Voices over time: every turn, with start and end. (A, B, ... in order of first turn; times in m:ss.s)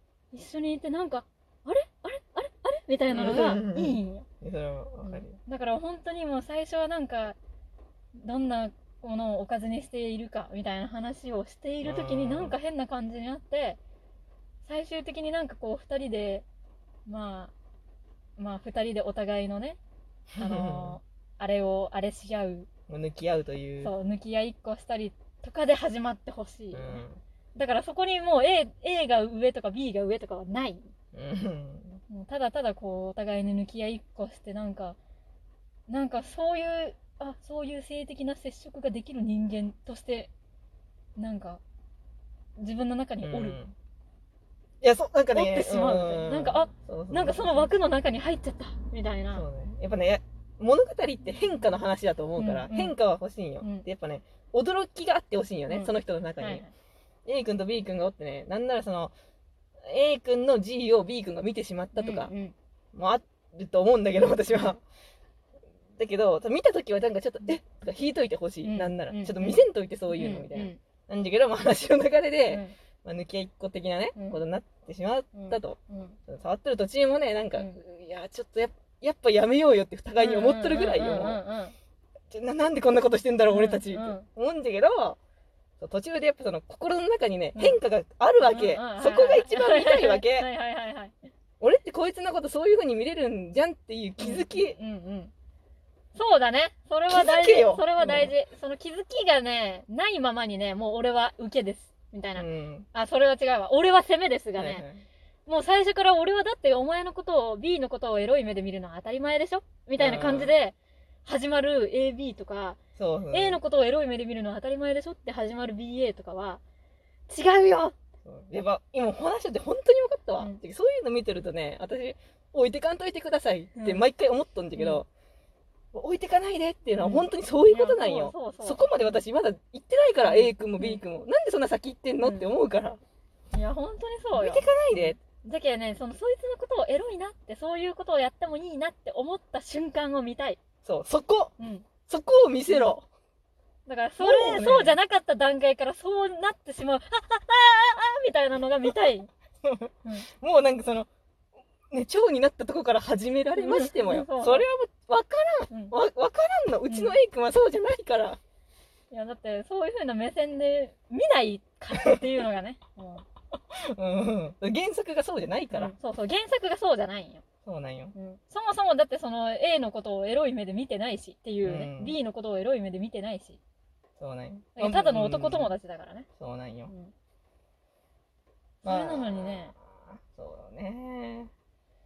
0:00.3-0:04.3 A
0:03.1-0:05.4 B
0:05.0-0:07.4 A
0:08.1-0:13.8 A
0:11.8-0:12.6 B
0:14.6-0:16.4 A
0:17.1-0:17.5 A
0:18.4-0:19.8 A
0:20.4-0:21.0 B
0:20.4-0:22.7 A
0:22.9-0:23.9 B
0:23.8-0:27.0 A
0:26.7-0:27.2 B
0:27.5-0:30.9 A
0:31.1-0:32.0 B
0:32.1-0:35.0 A
0:35.9-0:40.3 A
0:41.2-0:41.6 A
0:42.6-0:43.6 A
0:43.2-0:43.7 B
0:44.8-0:47.7 B
0:45.3-0:49.4 A
0:49.3-0:56.6 B
0:52.4-0:52.9 A
0:53.6-0:53.9 A
0:55.7-0:56.7 A
0:57.2-0:59.1 B
0:59.8-1:02.3 B
1:01.9-1:02.5 A
1:02.9-1:04.8 B
1:06.0-1:21.4 B
1:08.6-1:10.8 A
1:12.5-1:12.7 A
1:15.3-1:16.2 A
1:20.2-1:21.7 A
1:22.3-1:25.2 B
1:23.5-1:24.3 A
1:25.8-1:30.5 B
1:28.4-1:31.2 A
1:31.6-1:34.8 B
1:34.2-1:35.3 A
1:36.1-1:44.8 A
1:37.1-1:38.3 B
1:42.4-1:42.9 B
1:44.6-1:45.0 B
1:45.5-1:52.8 A
1:50.0-1:50.5 B
1:53.0-1:53.6 B
1:53.3-1:56.6 A
1:57.3-1:58.0 A
1:58.2-2:05.1 B
2:03.8-2:04.0 A
2:04.7-2:05.0 A
2:05.9-2:13.0 B
2:07.0-2:08.9 A
2:10.2-2:11.0 A
2:12.2-2:12.5 A
2:13.5-2:20.6 A
2:14.3-2:15.2 B
2:20.8-2:21.5 B
2:21.6-2:21.9 A
2:22.1-2:23.1 B
2:22.7-2:22.9 A
2:23.8-2:29.3 A
2:24.2-2:25.0 B
2:29.6-2:31.1 B
2:31.9-2:38.4 B
2:33.6-2:34.7 A
2:36.9-2:37.2 A
2:39.1-2:43.2 A
2:43.7-2:45.9 B
2:45.7-2:47.4 A
2:47.6-2:48.1 B
2:48.1-2:53.6 A
2:51.6-2:52.2 B
2:54.2-2:55.7 B
2:54.8-2:56.3 A
2:56.4-2:56.9 B
2:56.9-2:57.1 A
2:58.8-2:59.7 A
2:58.8-3:01.5 B